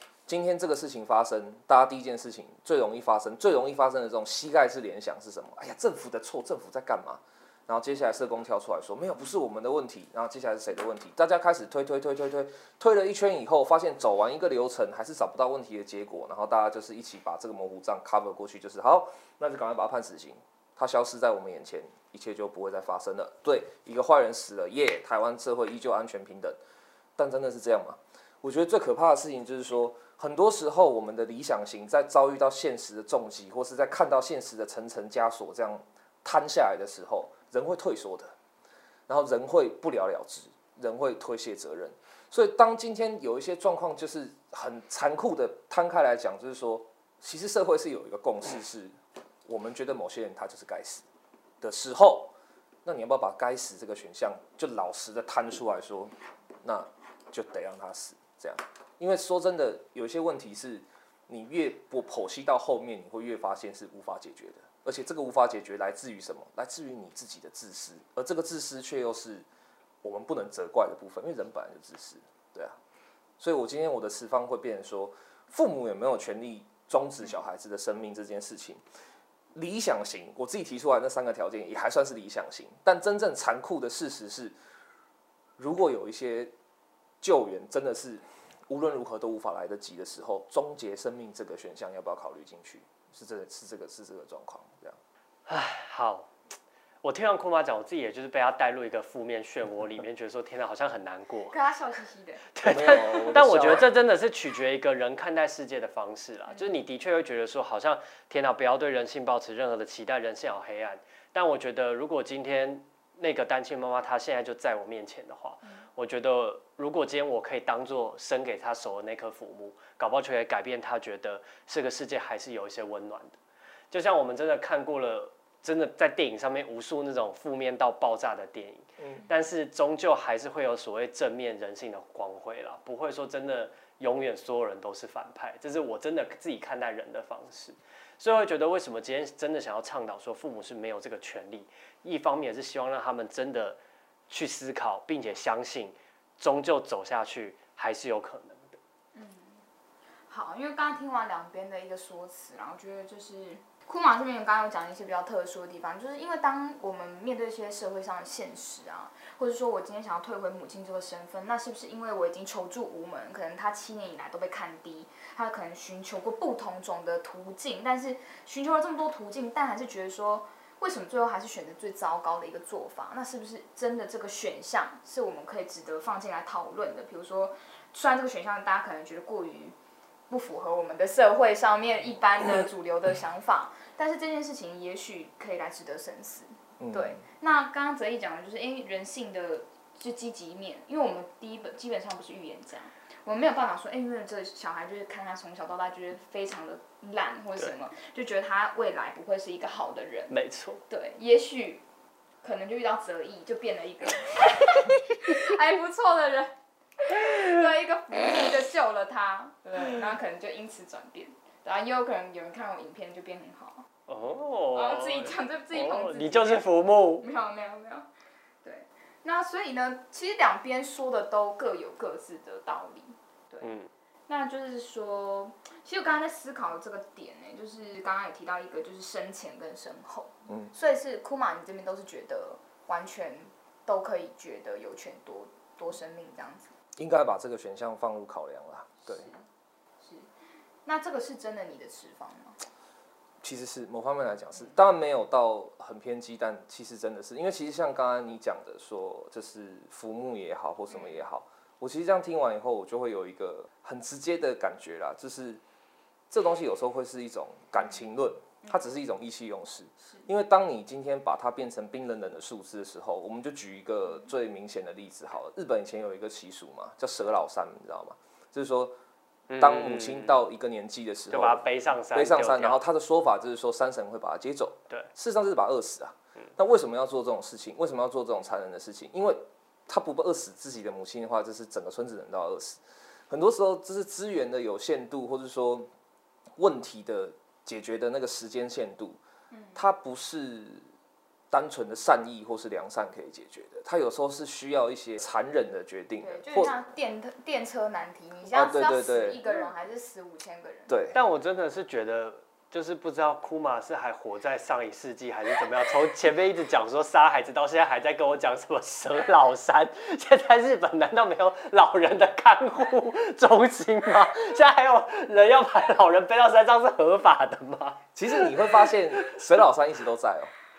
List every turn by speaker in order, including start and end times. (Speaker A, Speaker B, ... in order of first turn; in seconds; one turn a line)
Speaker A: 0.3-26.6
Speaker A: 27.2-38.3
Speaker A: 39.1-51.0
Speaker A: 51.6-52.3
Speaker A: 52.8-69.4
Speaker A: 70.0-72.8
Speaker A: 73.4-78.8
Speaker A: 79.5-84.5
Speaker A: 85.6-86.5
Speaker A: 87.2-95.0
Speaker B: 95.5-96.3
Speaker B: 97.0-101.5
Speaker C: 101.5-102.4
Speaker B: 102.5-123.4
Speaker A: 102.6-103.9
Speaker B: 123.9-143.8
Speaker B: 144.3-148.8
Speaker C: 149.1-149.6
Speaker C: 150.3-179.7
Speaker C: 180.3-200.3
Speaker A: 186.8-187.2
Speaker B: 200.3-200.8
Speaker C: 200.9-201.8
Speaker C: 202.4-213.8
Speaker B: 214.1-217.3
Speaker C: 214.7-216.7
Speaker C: 217.2-218.1
Speaker C: 218.6-223.7
Speaker B: 223.6-223.9
Speaker C: 224.3-236.7
Speaker A: 237.0-239.3
Speaker C: 239.1-239.4
Speaker C: 240.0-240.3
Speaker C: 240.8-242.6
Speaker A: 243.4-255.6
Speaker C: 250.9-251.2
Speaker A: 256.3-268.9
Speaker B: 269.5-270.4
Speaker A: 269.6-271.6
Speaker B: 271.3-272.8
Speaker A: 272.1-285.9
Speaker A: 286.6-289.2
Speaker C: 289.5-289.8
Speaker A: 289.8-290.8
Speaker A: 291.5-296.7
Speaker C: 296.2-300.9
Speaker A: 298.5-299.4
Speaker A: 300.9-301.1
Speaker B: 301.1-319.3
Speaker A: 318.1-320.5